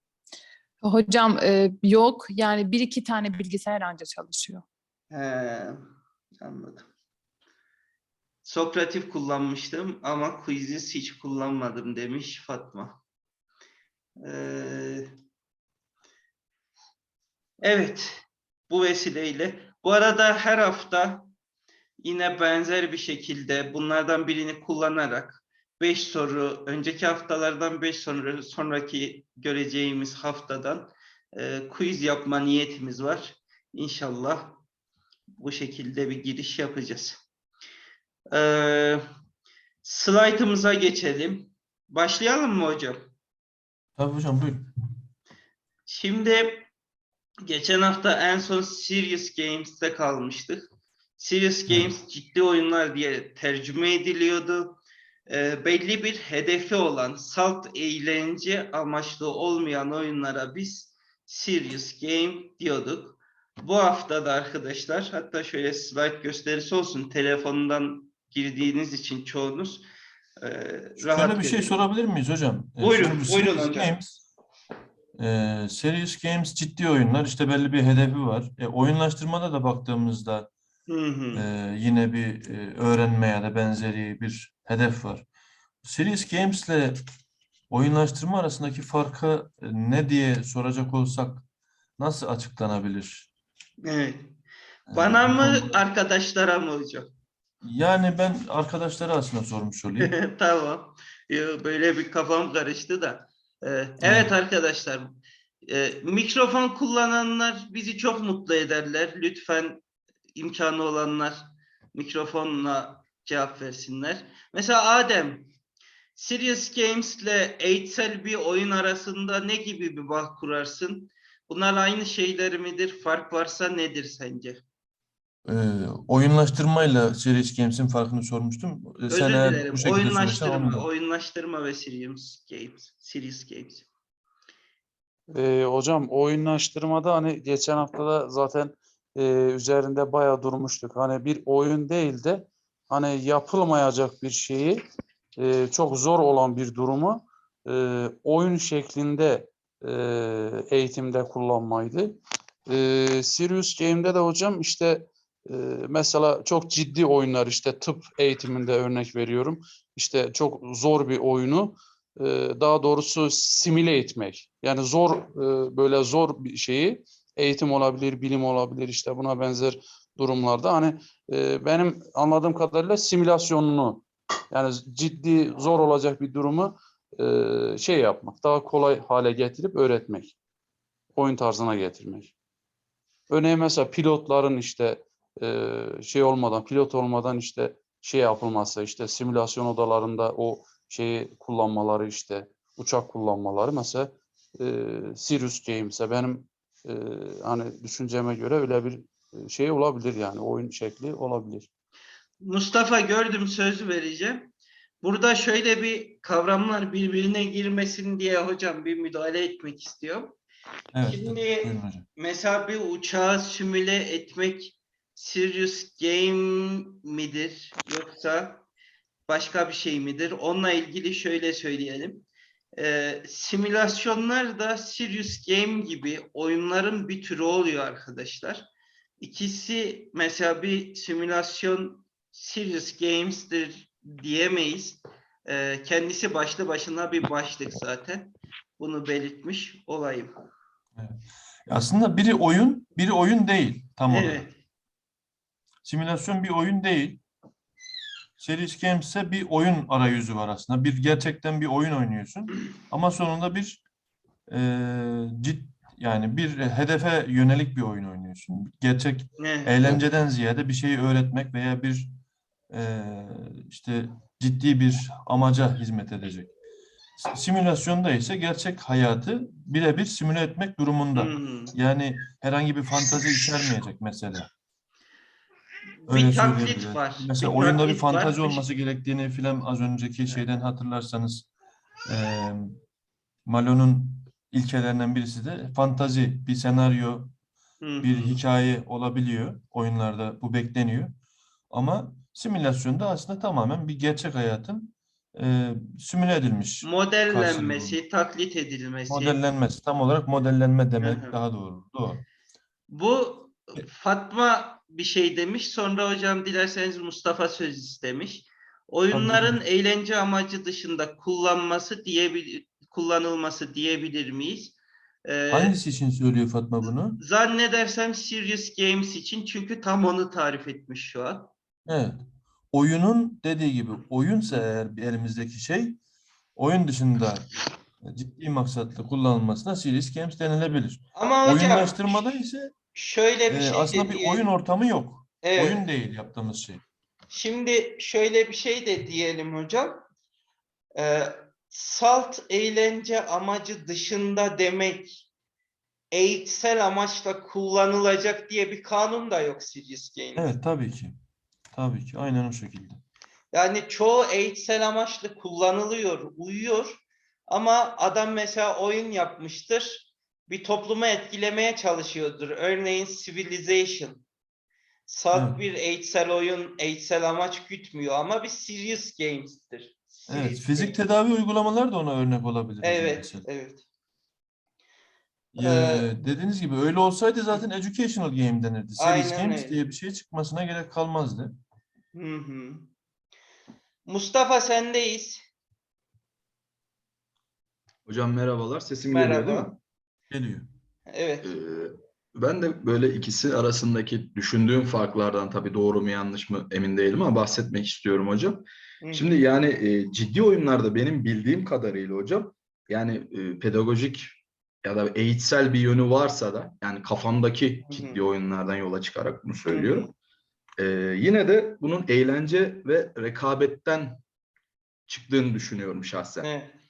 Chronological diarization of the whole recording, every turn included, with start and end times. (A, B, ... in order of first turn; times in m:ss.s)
0:00.8-0:04.6 A
0:05.1-0:05.8 B
0:06.4-0:06.9 B
0:08.4-0:13.0 B
0:14.2-0:15.1 B
0:17.6-0:21.3 B
0:22.0-0:34.6 B
0:35.4-0:37.2 B
0:38.3-0:39.0 B
0:39.8-0:43.1 B
0:44.0-0:44.7 C
0:45.9-0:46.7 B
0:47.4-1:09.8 B
1:10.4-1:11.8 B
1:11.0-1:14.2 C
1:12.8-1:13.9 B
1:15.2-1:20.5 C
1:20.9-1:21.4 B
1:21.3-1:25.2 C
1:25.8-1:27.0 C
1:27.7-1:31.4 C
1:32.0-1:33.3 C
1:33.8-1:34.3 B
1:34.9-1:35.8 C
1:34.9-1:37.1 B
1:37.6-1:40.1 C
1:40.0-1:45.1 B
1:44.0-1:44.3 C
1:45.7-1:49.8 B
1:50.3-1:55.5 B
1:56.2-2:04.6 B
2:05.4-2:10.9 C
2:09.1-2:13.8 B
2:15.3-2:24.8 D
2:25.4-3:00.4 D
3:01.1-3:02.3 D
3:03.3-3:21.7 D
3:22.4-3:24.5 B
3:25.0-3:30.4 B
3:30.9-3:32.0 C
3:31.0-3:38.6 B
3:39.3-3:42.2 B
3:42.8-3:48.7 B
3:49.2-4:00.3 B
4:01.0-4:04.5 C
4:04.1-4:04.5 B
4:05.8-4:07.2 C
4:08.4-4:13.8 C
4:14.5-4:22.2 C
4:19.4-4:20.0 B
4:22.7-4:26.5 C
4:27.2-4:34.5 C
4:31.1-4:31.7 B
4:36.0-4:38.6 B
4:36.1-4:41.5 C
4:42.0-4:42.8 C
4:43.4-4:47.3 C
4:47.8-4:48.4 B
4:48.0-4:51.1 C
4:51.7-4:58.0 C
4:56.8-4:59.4 B
4:59.1-5:02.2 C
5:01.0-5:01.4 B
5:02.9-5:15.8 B
5:09.1-5:09.6 C
5:15.5-5:17.2 C
5:17.2-5:21.5 B
5:21.8-5:22.2 C
5:22.7-5:26.0 C
5:26.6-5:32.7 C
5:31.2-5:32.3 B
5:32.9-5:34.4 B
5:33.5-5:36.8 C
5:35.4-5:35.8 B
5:37.3-5:40.0 B
5:41.0-5:45.3 B
5:46.1-5:50.5 B
5:50.4-5:51.2 C
5:51.7-5:53.0 C
5:53.5-6:04.2 B
6:05.1-6:11.0 B
6:05.3-6:05.6 C
6:10.3-6:13.5 C
6:12.8-6:13.8 B
6:15.5-6:21.6 C
6:15.6-6:16.2 B
6:19.0-6:19.7 B
6:22.1-6:22.9 B
6:24.0-6:25.4 B
6:28.0-6:29.8 E
6:29.1-6:29.8 B
6:30.3-6:30.7 C
6:31.1-6:31.5 B
6:31.4-6:50.1 E
6:39.0-6:39.4 B
6:47.8-6:48.2 B
6:49.7-6:50.1 B
6:50.8-6:54.2 E
6:55.1-6:56.5 E
6:56.4-6:56.7 B